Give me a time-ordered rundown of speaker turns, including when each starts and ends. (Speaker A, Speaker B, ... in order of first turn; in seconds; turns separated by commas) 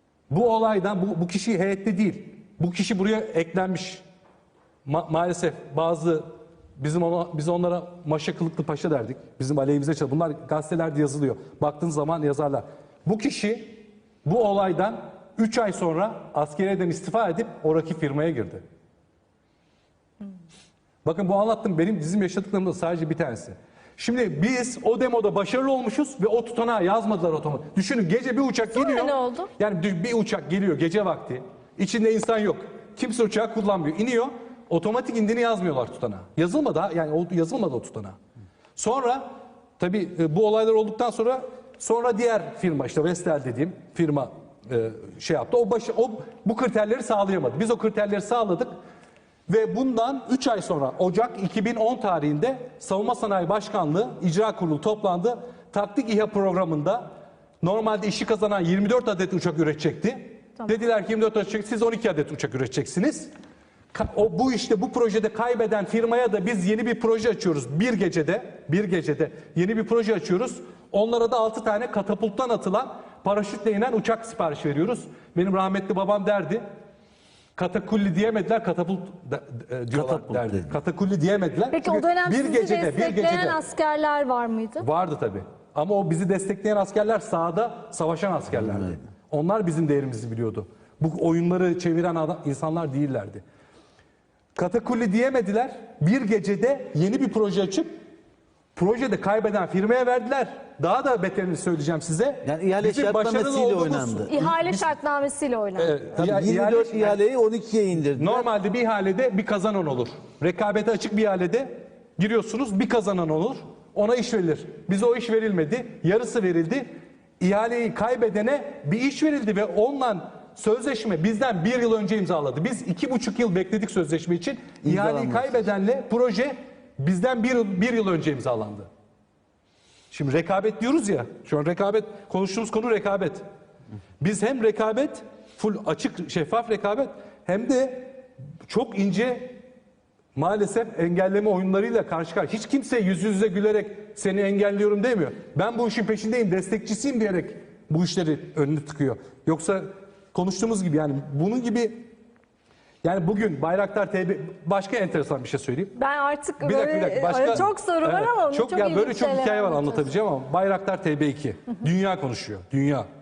Speaker A: 0.3-4.0, Speaker A: 4.8-18.6, Speaker A: 21.0-38.2, Speaker B: 28.7-29.5, Speaker A: 38.8-39.3, Speaker A: 39.8-48.7, Speaker A: 49.5-57.1, Speaker A: 57.6-63.3, Speaker A: 63.9-76.6, Speaker A: 77.6-83.6, Speaker C: 79.9-80.6, Speaker B: 81.7-84.8, Speaker A: 84.8-93.4, Speaker A: 94.5-97.9, Speaker A: 98.7-104.9, Speaker C: 102.4-104.3, Speaker B: 104.3-106.0, Speaker A: 105.8-107.2, Speaker C: 106.1-108.5, Speaker A: 108.2-116.9, Speaker A: 117.4-128.9, Speaker C: 124.8-125.5, Speaker A: 130.1-133.4, Speaker A: 134.2-139.6, Speaker A: 140.3-152.1, Speaker A: 153.0-155.9, Speaker B: 155.9-160.1, Speaker A: 156.6-163.1